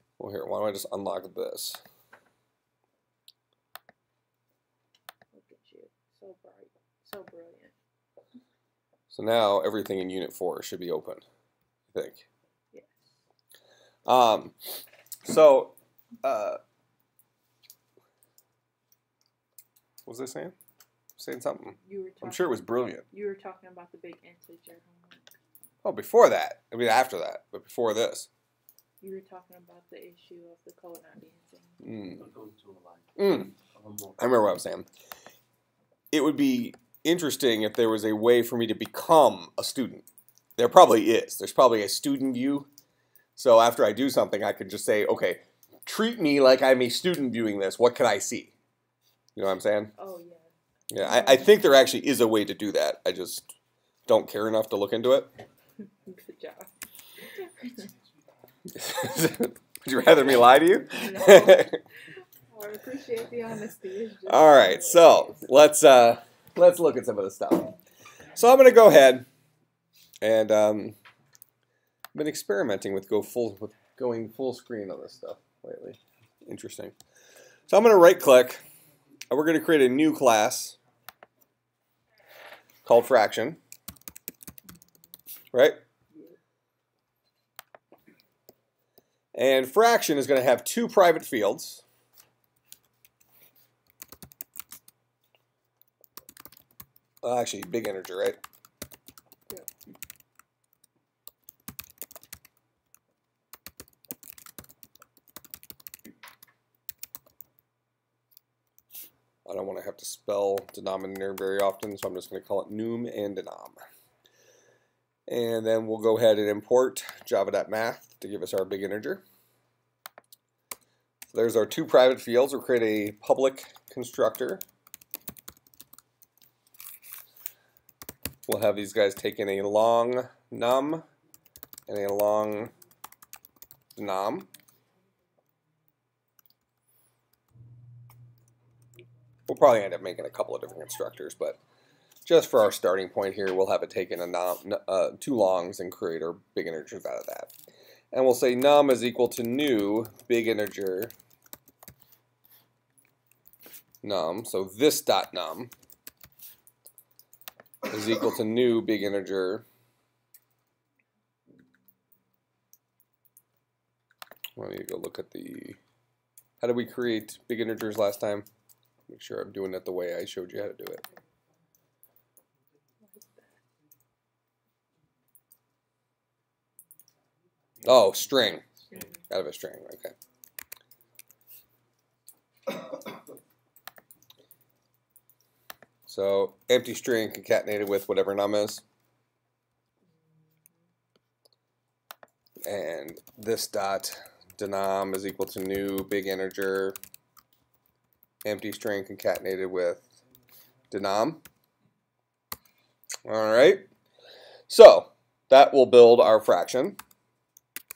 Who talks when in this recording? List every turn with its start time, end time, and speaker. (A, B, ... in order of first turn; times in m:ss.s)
0:00.2-0:01.8 A
0:05.3-0:07.7 B
0:09.1-0:11.2 A
0:11.9-0:12.2 A
0:12.7-0:13.2 B
0:14.1-0:14.6 A
0:15.2-0:16.6 A
0:20.1-0:20.5 A
0:21.2-0:23.0 A
0:21.8-0:25.3 B
0:25.8-0:28.3 A
0:29.0-0:31.8 B
0:31.8-0:32.2 A
0:32.2-0:34.2 C
0:33.2-0:33.5 A
0:34.2-0:34.9 A
0:36.1-0:40.0 A
0:40.6-0:42.7 A
0:43.4-0:48.5 A
0:49.4-0:49.9 A
0:50.0-0:51.6 B
0:50.9-0:53.5 A
0:54.1-0:55.3 A
0:56.0-0:56.7 B
0:57.4-0:57.9 B
0:58.8-1:01.8 A
1:01.0-1:01.8 B
1:02.5-1:05.4 B
1:04.3-1:07.8 A
1:08.4-1:09.3 A
1:10.2-1:11.0 A
1:12.1-1:16.9 A
1:17.7-1:18.6 A
1:19.3-1:20.8 A
1:22.8-1:23.6 A
1:25.5-1:25.8 A
1:29.3-1:31.8 A
1:37.2-1:38.4 A
1:49.5-1:53.8 A
1:55.3-1:59.2 A
2:01.3-2:04.6 A
2:08.5-2:11.0 A
2:11.9-2:12.7 A
2:14.0-2:14.5 A
2:19.5-2:21.6 A
2:22.3-2:27.5 A
2:28.1-2:31.1 A
2:34.0-2:35.7 A
2:37.9-2:39.6 A
2:44.6-2:45.8 A
2:46.6-2:48.5 A
2:49.1-2:51.0 A
2:53.0-2:53.4 B
2:57.8-2:59.2 C
2:57.8-2:58.7 A
2:59.2-3:00.1 A
3:06.1-3:08.8 A
3:10.3-3:10.6 B
3:12.6-3:17.0 A
3:18.4-3:20.0 A
3:20.9-3:21.4 A
3:23.2-3:23.9 A
3:24.7-3:27.0 A